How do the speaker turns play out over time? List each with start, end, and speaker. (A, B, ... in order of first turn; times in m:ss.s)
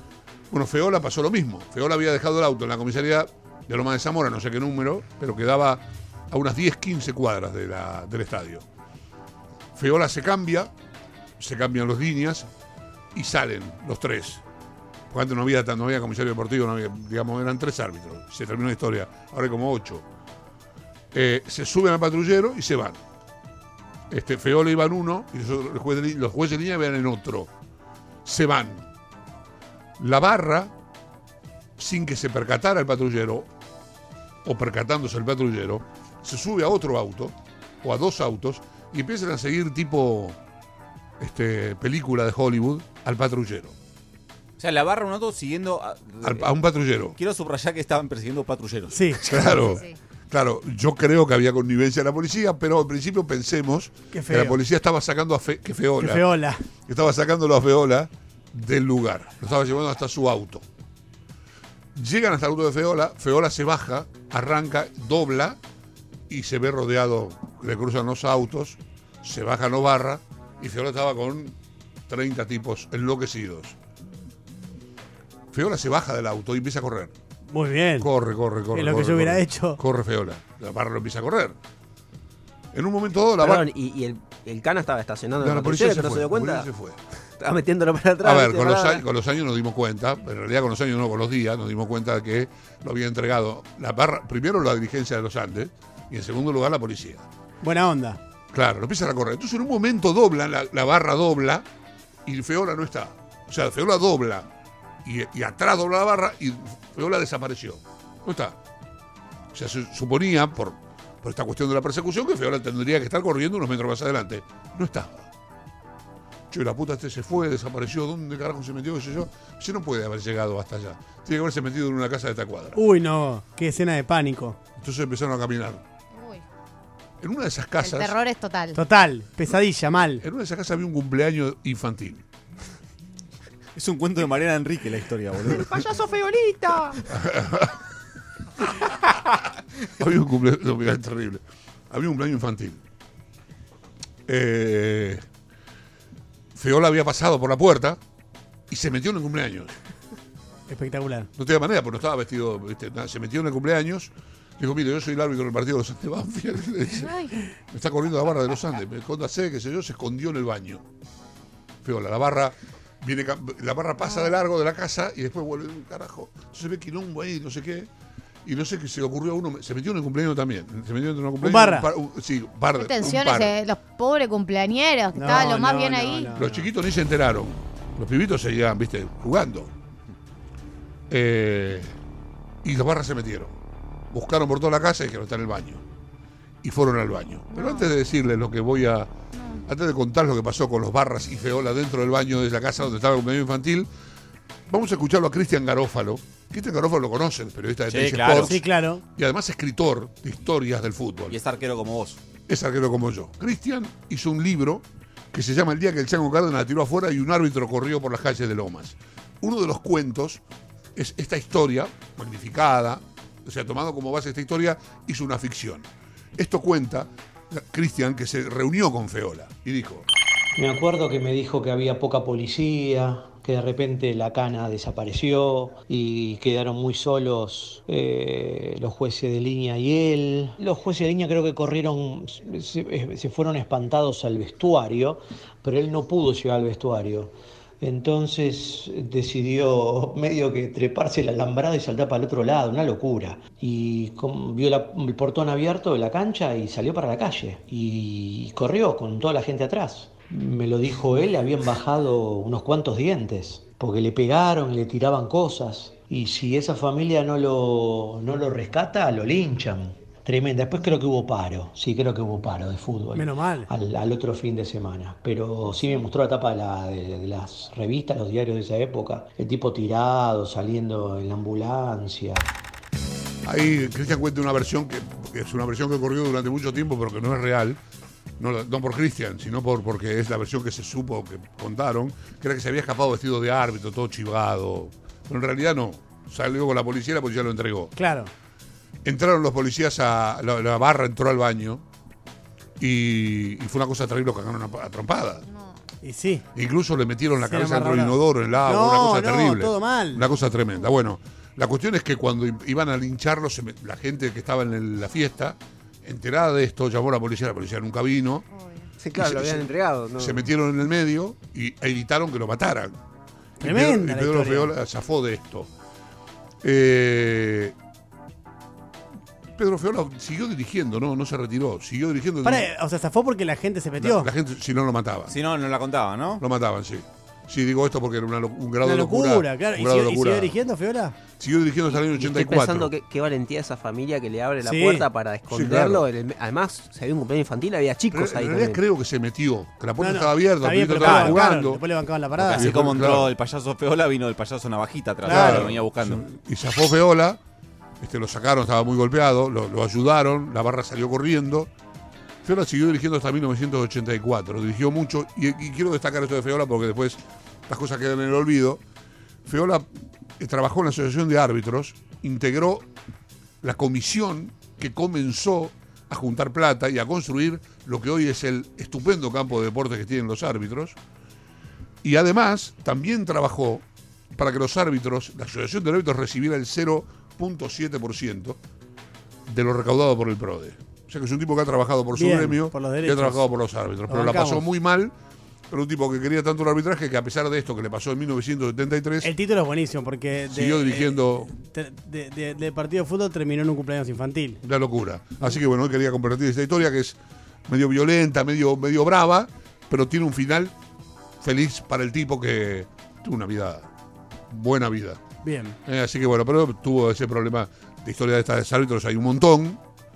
0:00.5-0:08.6 A
0:09.8-0:10.7 A
0:11.4-0:12.5 A
0:13.1-0:14.4 A
0:15.1-0:20.1 A
0:21.1-0:23.0 A
0:24.1-0:27.5 A
0:28.2-0:28.9 A
0:30.0-0:30.7 A
0:31.8-0:33.5 A
0:34.4-0:40.4 A
0:41.2-0:43.8 A
0:44.6-0:46.5 B
0:46.2-0:47.2 A
0:47.2-0:49.4 B
0:48.9-0:49.4 C
0:49.2-0:56.3 A
0:54.1-0:54.6 C
0:56.0-0:56.6 C
0:56.9-1:00.6 A
1:02.0-1:05.6 A
1:06.3-1:11.6 A
1:12.1-1:13.8 A
1:15.5-1:17.2 A
1:17.5-1:18.1 C
1:18.0-1:21.6 A
1:18.7-1:19.8 C
1:22.7-1:23.7 A
1:23.4-1:26.7 D
1:25.4-1:27.0 A
1:27.4-1:29.0 D
1:28.2-1:37.3 A
1:37.6-1:38.2 C
1:38.5-1:41.7 A
1:42.3-1:44.5 A
1:45.0-1:48.6 A
1:49.5-1:55.3 A
1:56.5-2:02.8 A
2:02.8-2:04.6 C
2:04.8-2:05.8 A
2:06.1-2:06.4 E
2:07.2-2:08.2 A
2:07.8-2:08.8 E
2:08.7-2:10.2 C
2:10.2-2:12.2 A
2:13.8-2:16.0 B
2:15.5-2:17.0 E
2:17.1-2:17.8 A
2:20.0-2:22.8 A
2:24.3-2:25.2 A
2:26.6-2:28.0 A
2:28.7-2:29.7 A
2:30.7-2:31.3 C
2:31.4-2:40.8 A
2:37.0-2:37.4 E
2:41.8-2:47.9 A
2:48.4-2:53.6 A
2:51.4-2:51.9 C
2:52.8-2:56.3 E
2:55.1-2:56.7 C
2:56.4-2:59.7 A
3:01.1-3:01.9 A
3:02.6-3:03.6 A
3:04.1-3:05.8 A
3:06.6-3:09.1 A
3:07.6-3:07.9 E
3:09.7-3:13.9 A
3:14.7-3:18.6 A
3:17.9-3:18.6 B
3:18.4-3:19.0 C
3:19.2-3:21.4 A
3:21.3-3:22.2 B
3:22.5-3:30.4 A
3:31.0-3:40.1 A
3:40.6-4:32.5 F
4:23.1-4:23.7 C
4:33.4-4:37.8 A
4:38.4-4:47.9 A
4:48.0-4:48.3 C
4:49.0-4:51.8 A
4:52.8-4:55.4 A
4:56.0-4:56.4 C
4:56.6-5:08.5 A
4:57.4-5:00.3 C
5:08.6-5:08.9 E
5:09.0-5:10.4 D
5:09.1-5:13.0 A
5:13.6-5:14.7 C
5:13.6-5:15.7 A
5:16.6-5:17.8 A
5:19.6-5:22.7 A
5:22.4-5:24.3 C
5:24.0-5:25.4 A
5:25.3-5:26.4 B
5:26.4-5:30.6 A
5:28.8-5:31.2 C
5:31.4-5:32.9 A
5:31.9-5:38.8 D
5:34.6-5:35.1 C
5:35.5-5:36.1 A
5:38.1-5:41.8 A
5:40.0-5:42.7 C
5:42.4-5:46.2 B
5:42.5-5:43.4 A
5:45.2-5:45.8 C
5:45.3-5:47.4 A
5:48.0-5:51.7 A
5:52.4-5:58.8 A
5:59.5-5:59.9 A
6:00.4-6:02.9 A
6:03.6-6:11.0 A
6:12.0-6:13.8 A
6:14.4-6:18.6 A
6:19.5-6:25.1 A
6:22.1-6:23.5 C
6:24.1-6:24.6 C
6:25.7-6:29.3 A
6:29.2-6:34.6 C
6:30.5-6:31.6 A
6:34.6-6:37.2 A
6:37.7-6:40.7 A
6:41.4-6:43.9 A
6:44.5-6:45.2 A
6:45.4-6:45.8 C
6:45.8-6:49.8 A